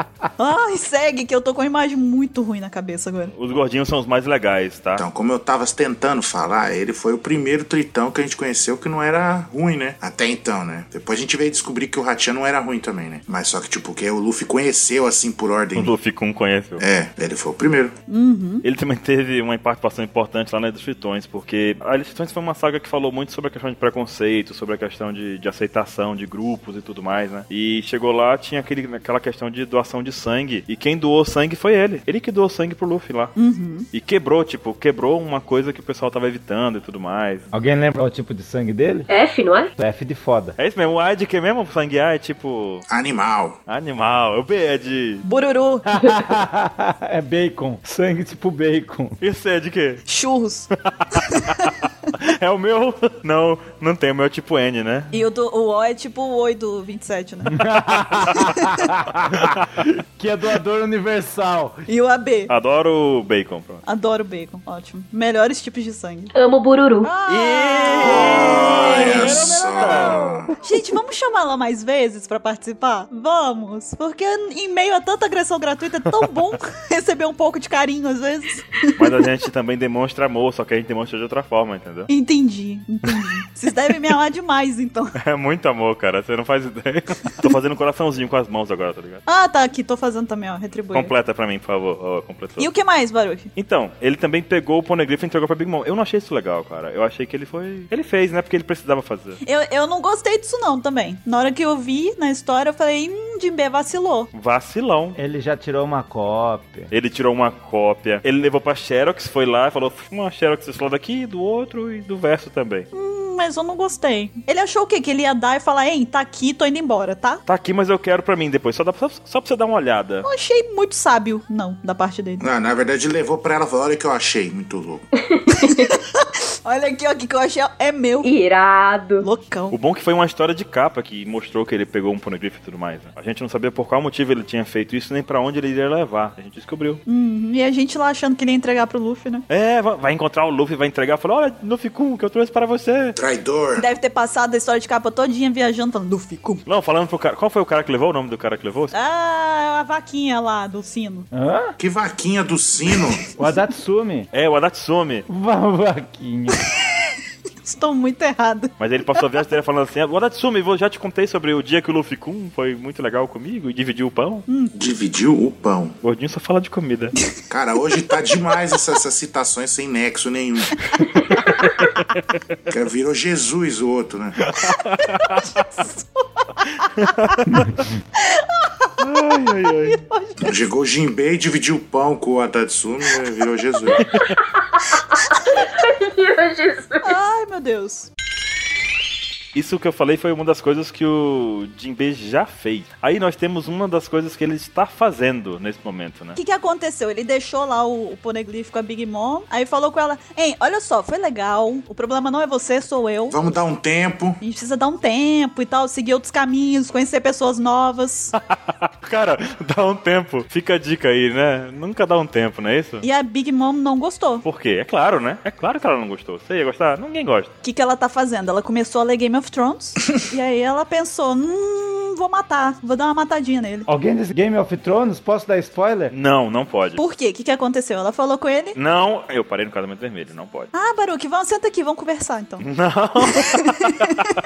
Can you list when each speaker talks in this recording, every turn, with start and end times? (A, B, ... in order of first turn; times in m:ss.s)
0:00.4-0:03.3 A
0:03.3-0:05.0 B
0:05.0-0:15.9 C
0:15.7-0:16.8 B
0:16.8-0:17.9 C
0:18.1-0:18.6 A
0:18.6-0:33.3 B
0:33.4-0:33.9 A
0:33.9-0:37.5 B
0:37.5-0:39.1 D
0:39.1-0:39.7 E
0:39.8-0:40.5 D
0:40.6-0:42.8 B
0:42.9-0:43.6 C
0:43.7-0:45.2 B
0:45.2-0:45.8 A
0:45.9-0:49.2 D
0:49.2-0:50.0 B
0:50.1-0:51.7 A
0:50.8-0:55.1 B
0:55.1-0:57.6 A
0:57.5-1:01.8 D
0:59.4-0:59.8 B
1:01.9-1:02.5 A
1:02.5-1:03.8 B
1:03.8-1:06.3 A
1:06.3-1:07.1 E
1:07.0-1:09.3 A
1:07.3-1:10.4 B
1:08.0-1:10.5 C
1:10.6-1:19.0 A
1:19.0-1:22.1 B
1:22.1-1:25.1 A
1:25.2-1:29.2 B
1:29.3-1:31.1 A
1:30.9-1:32.7 B
1:32.6-1:33.5 A
1:33.6-1:39.4 B
1:39.4-1:44.3 A
1:44.3-1:45.2 B
1:45.2-1:46.9 D
1:46.9-1:52.9 B
1:52.9-1:57.4 A
1:57.4-2:00.3 B
2:00.2-2:02.4 A
2:02.4-2:05.0 C
2:05.2-2:05.9 E
2:05.6-2:06.0 A
2:06.6-2:08.3 A
2:08.2-2:09.2 E
2:09.2-2:09.8 A
2:09.7-2:17.0 B
2:17.0-2:19.4 A
2:19.5-2:23.2 B
2:23.2-2:23.8 C
2:23.8-2:26.6 A
2:26.6-2:28.9 B
2:28.9-2:31.3 A
2:31.3-2:31.7 D
2:31.8-2:33.3 C
2:33.4-2:34.3 D
2:34.3-2:35.2 B
2:35.3-2:36.6 D
2:37.6-2:39.2 A
2:38.8-2:44.4 B
2:44.5-2:44.7 A
2:44.8-2:45.9 C
2:46.0-2:47.1 B
2:47.5-2:50.8 C
2:52.7-2:54.3 C
2:54.6-2:55.6 B
2:55.8-2:56.4 A
2:57.0-2:57.7 B
2:58.2-2:58.9 A
2:59.0-3:00.0 B
2:59.8-3:00.5 A
3:00.4-3:04.0 C
3:03.9-3:07.2 E
3:04.0-3:04.4 B
3:07.0-3:08.1 A
3:09.5-3:16.4 B
3:16.4-3:23.4 A
3:23.3-3:24.4 C
3:24.4-3:28.3 A
3:28.4-3:33.0 B
3:33.0-3:34.4 A
3:34.4-3:37.5 B
3:37.6-3:43.9 A
3:43.9-3:46.1 D
3:46.1-3:47.0 B
3:47.0-3:48.8 A
3:48.7-3:50.7 B
3:50.7-3:52.6 A
3:52.6-3:54.3 B
3:53.2-3:53.9 A